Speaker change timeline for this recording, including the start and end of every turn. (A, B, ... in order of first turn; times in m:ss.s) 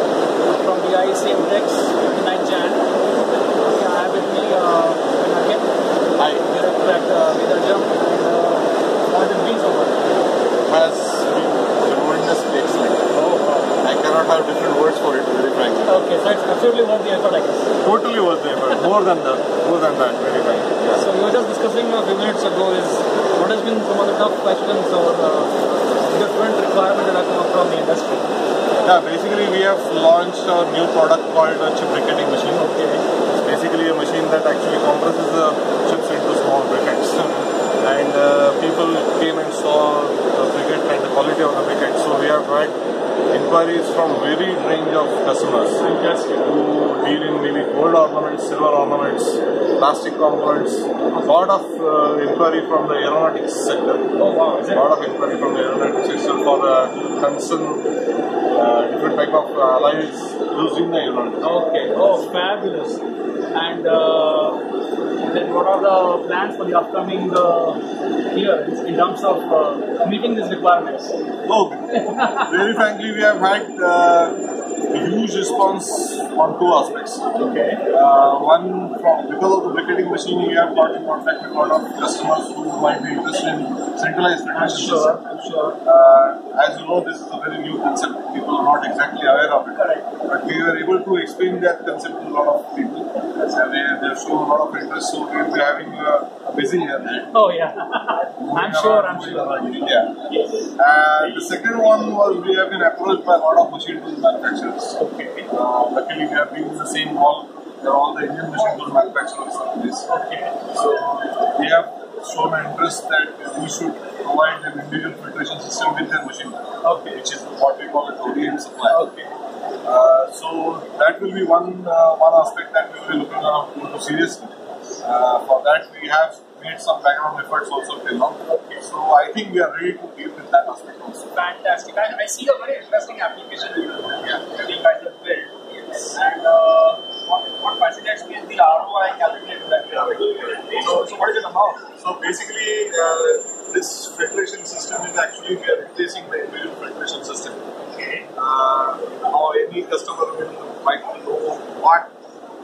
0:00.5-0:02.9 A
0:03.6-0:05.7 A
0:06.2-0:06.4 B
0:06.4-0:10.0 A
0:10.6-0:13.1 B
0:13.1-0:13.7 A
0:13.8-0:16.0 B
0:15.8-0:17.7 A
0:17.8-0:21.0 B
0:20.9-0:28.3 A
0:28.8-0:32.7 B
0:32.6-0:33.0 A
0:33.4-0:42.8 B
0:43.3-0:45.8 B
0:45.8-0:46.5 A
0:46.4-0:54.1 B
0:54.2-0:54.9 A
0:54.7-0:57.9 B
0:58.5-1:01.5 B
1:01.4-1:03.0 A
1:03.5-1:04.6 A
1:05.2-1:07.8 A
1:08.3-1:11.2 A
1:11.4-1:14.4 B
1:11.9-1:12.5 A
1:14.9-1:17.2 B
1:17.3-1:17.8 A
1:17.9-1:25.2 B
1:24.5-1:25.8 A
1:25.8-1:37.3 B
1:29.7-1:30.0 A
1:37.3-1:41.6 A
1:38.4-1:40.2 B
1:40.8-1:45.0 B
1:45.0-1:45.5 A
1:45.5-1:50.0 B
1:50.1-1:50.6 A
1:50.7-1:59.0 B
1:56.8-1:57.2 A
1:58.9-1:59.3 A
1:59.8-2:11.3 B
2:08.4-2:08.9 A
2:11.3-2:21.8 A
2:21.9-2:27.6 B
2:28.0-2:28.3 A
2:28.3-2:32.1 B